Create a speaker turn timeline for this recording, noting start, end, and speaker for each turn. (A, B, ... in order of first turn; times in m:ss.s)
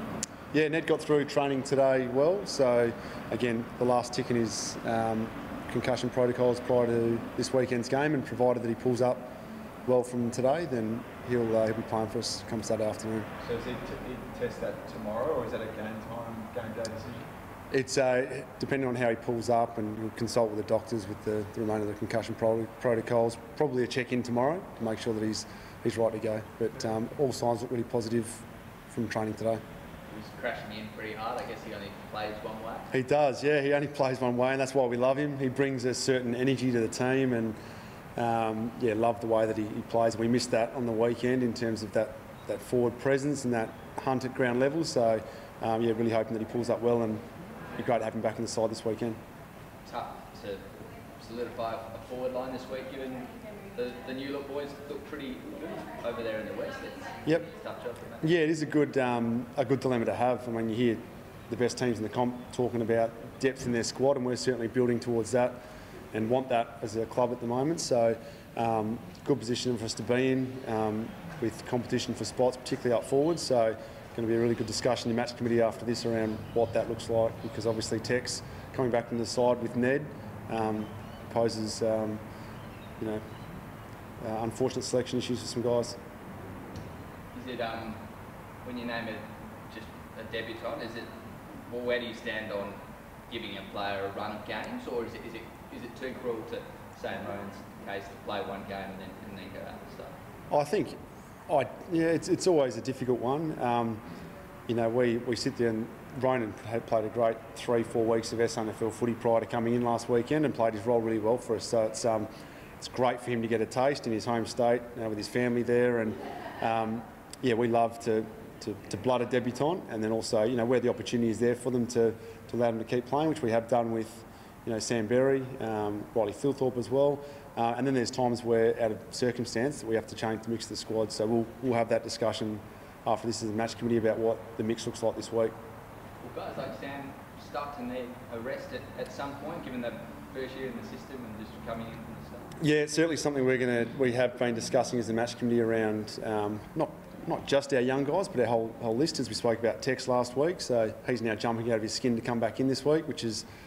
0:00.5-0:09.3 A
0:09.8-0:13.3 A
0:13.4-0:17.3 B
0:17.7-0:29.6 A
0:30.1-0:32.9 C
0:32.9-0:37.6 A
0:38.2-0:47.2 A
0:47.8-0:49.2 A
0:49.8-0:50.6 C
0:51.2-0:58.3 C
0:58.2-1:05.6 A
1:06.1-1:22.2 A
1:24.2-1:26.0 A
1:27.3-1:28.0 C
1:28.6-1:40.1 C
1:40.5-1:41.0 A
1:41.5-1:44.0 A
1:44.7-1:52.3 A
1:52.8-2:15.5 A
2:16.2-2:22.5 C
2:22.6-2:33.4 A